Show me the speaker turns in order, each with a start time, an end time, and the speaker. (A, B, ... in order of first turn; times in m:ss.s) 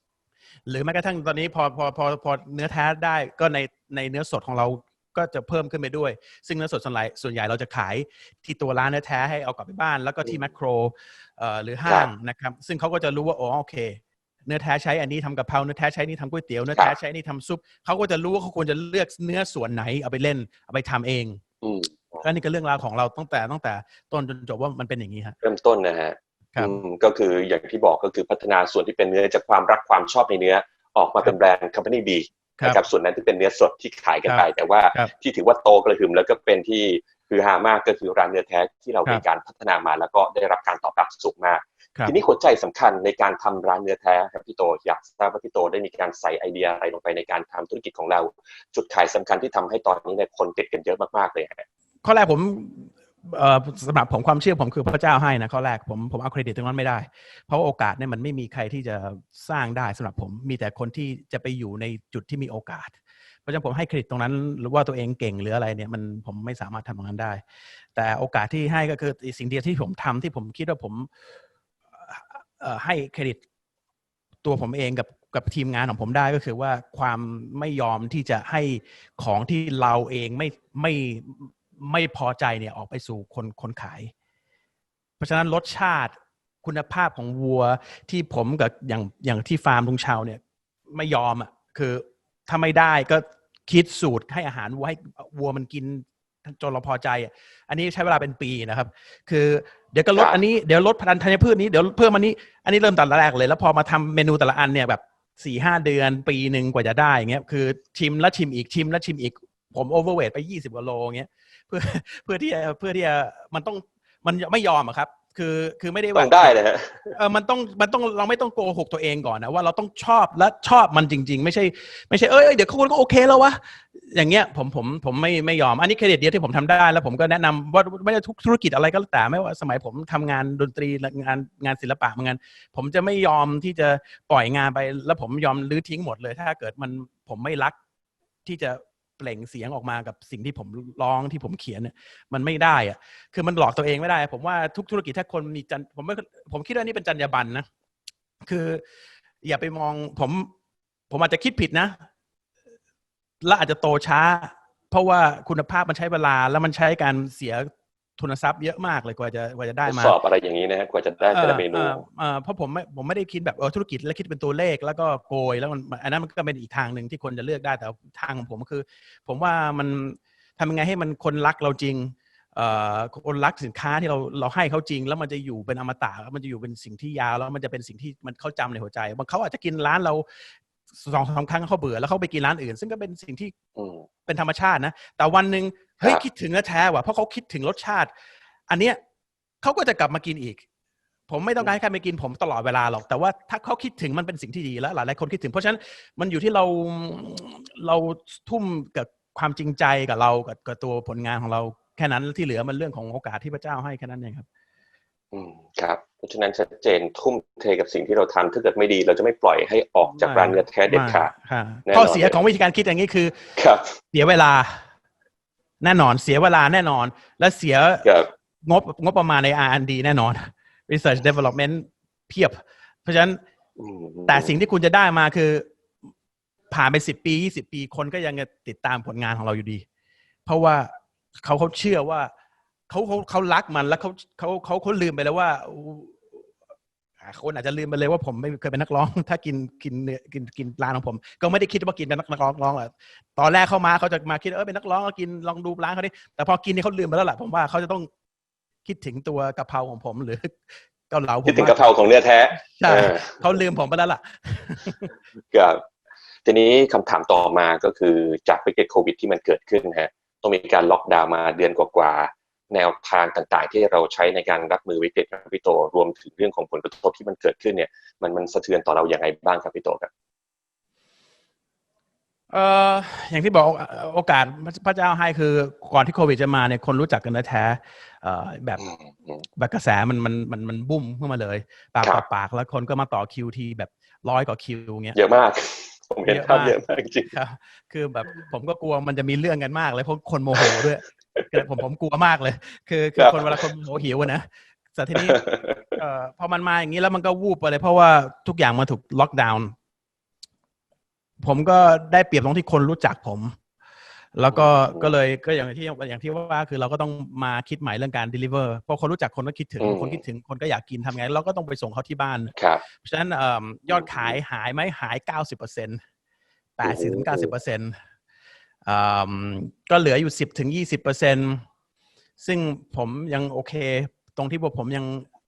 0:00.7-0:21.4 A
0:11.8-0:12.1 B
0:21.6-0:22.2 B
0:22.2-0:25.4 A
0:25.4-0:51.6 B
0:34.2-0:35.1 A
0:52.0-1:07.4 A
1:08.0-1:11.1 A
1:12.0-1:13.4 A
1:14.4-1:24.1 A
1:25.2-1:30.4 A
1:30.9-1:56.6 A
1:40.1-1:40.4 B
1:56.1-1:57.1 B
1:57.1-2:17.8 A
2:18.4-2:27.6 A
2:28.4-2:28.8 A
2:29.4-2:30.5 A
2:31.1-2:32.0 A
2:33.4-2:40.2 A
2:39.8-2:42.0 B
2:41.3-3:00.2 A
3:01.0-3:03.5 A
3:03.8-3:04.0 B
3:04.2-3:08.1 A
3:08.7-3:09.0 A
3:09.6-3:10.6 A
3:11.3-3:24.4 A
3:25.3-3:31.3 B
3:30.0-3:33.4 A
3:31.9-3:32.4 B
3:33.6-3:34.0 B
3:34.1-3:34.8 A
3:35.8-3:38.1 A
3:38.0-3:38.3 B
3:38.6-3:43.4 A
3:43.8-3:44.5 B
3:44.3-3:45.6 A
3:46.7-3:49.8 A
3:50.4-3:52.3 A
3:52.9-3:56.3 A
3:57.2-4:08.1 A
4:08.8-4:11.9 A
4:11.4-4:13.4 B
4:12.6-4:15.1 A
4:15.5-4:15.8 B
4:16.4-4:30.1 B
4:32.5-4:38.9 A
4:38.8-4:39.4 B
4:39.6-4:45.2 A
4:45.1-4:47.3 B
4:46.2-4:55.4 A
4:51.4-4:51.6 B
4:53.2-4:53.6 B
4:55.1-4:56.0 B
4:56.0-4:59.7 A
5:01.4-5:03.6 A
5:04.4-5:16.0 A
5:04.5-5:05.1 B
5:09.8-5:10.2 B
5:12.6-5:12.8 B
5:13.9-5:14.4 B
5:16.8-5:17.9 A
5:16.8-5:17.5 B
5:18.8-5:21.6 A
5:22.4-5:25.3 A